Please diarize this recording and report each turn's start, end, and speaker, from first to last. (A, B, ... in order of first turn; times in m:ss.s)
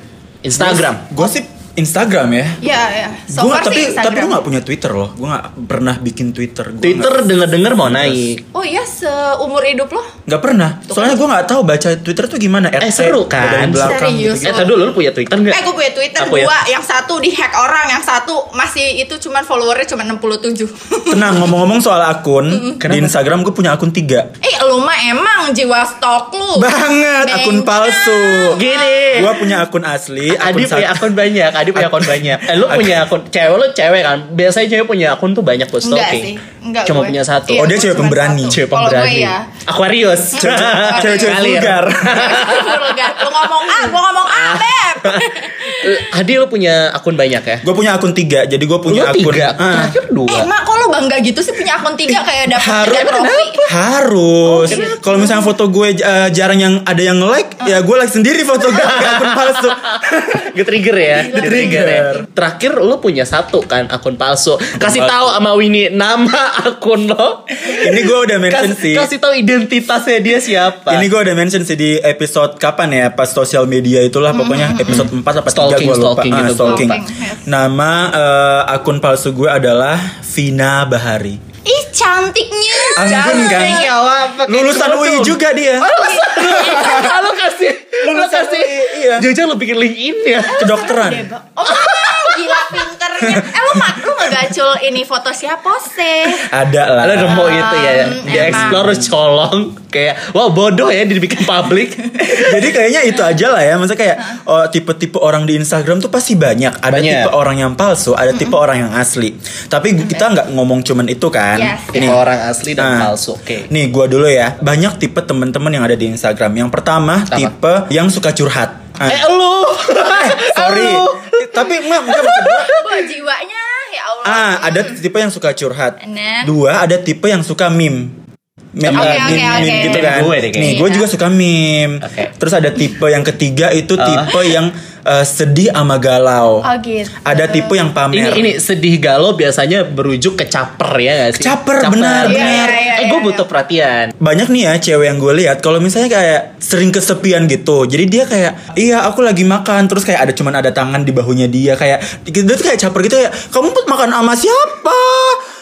0:00.4-0:01.0 A
0:00.6-0:02.6 B
0:02.6-0:04.4 C
0:03.3-0:08.3 B
0:06.8-0:08.4 A
0:08.5-0:10.1 C
0:10.3-0:14.7 B
0:10.9-0:11.2 C
0:12.8-0:15.6 A
0:13.8-0:14.7 C
0:15.5-0:21.5 C
0:16.2-0:16.5 A
0:21.1-0:24.3 B
0:22.5-0:22.8 C
0:22.8-0:23.1 A
0:24.4-0:29.4 C
0:26.5-0:28.6 B
0:28.5-0:29.4 A
0:29.1-0:31.1 B
0:30.3-0:36.3 A
0:31.7-0:33.0 B
0:35.8-0:39.5 C
0:36.8-0:37.7 A
0:37.5-0:38.6 B
0:38.5-0:47.6 A
0:40.3-0:41.4 C
0:40.4-0:42.4 B
0:42.1-0:46.1 C
0:47.6-0:49.9 B
0:48.9-0:50.5 A
0:50.3-0:53.6 C
0:52.1-1:00.5 B
0:53.0-0:53.7 A
0:54.5-0:55.1 A
0:54.7-0:55.5 C
0:58.7-1:11.0 A
1:01.2-1:01.8 C
1:01.3-1:02.3 B
1:04.8-1:05.4 B
1:07.7-1:09.1 B
1:10.9-1:21.4 B
1:14.3-1:15.1 C
1:14.9-1:17.0 A
1:16.6-1:17.4 C
1:21.6-1:24.0 C
1:22.8-1:30.7 A
1:23.0-1:23.9 B
1:24.5-1:25.9 B
1:25.8-1:27.2 C
1:28.0-1:29.3 B
1:30.5-1:36.5 C
1:30.5-1:31.3 B
1:31.6-1:32.8 A
1:33.2-1:34.2 B
1:36.4-1:39.1 B
1:37.0-1:42.7 A
1:37.3-1:38.8 C
1:42.2-1:52.2 B
1:46.9-1:47.3 A
1:51.5-1:52.2 C
1:51.9-1:53.7 A
1:52.8-1:53.1 B
1:53.7-1:59.3 B
1:59.1-2:03.0 A
2:00.0-2:02.7 B
2:02.1-2:05.0 C
2:04.2-2:08.2 B
2:06.0-2:06.5 C
2:08.8-2:16.6 B
2:08.8-2:10.8 A
2:08.9-2:11.1 C
2:12.0-2:12.3 A
2:14.0-2:14.4 A
2:16.6-2:17.8 C
2:17.2-2:18.5 B
2:18.1-2:24.1 A
2:21.3-2:22.8 B
2:22.2-2:23.4 C
2:24.2-2:35.4 B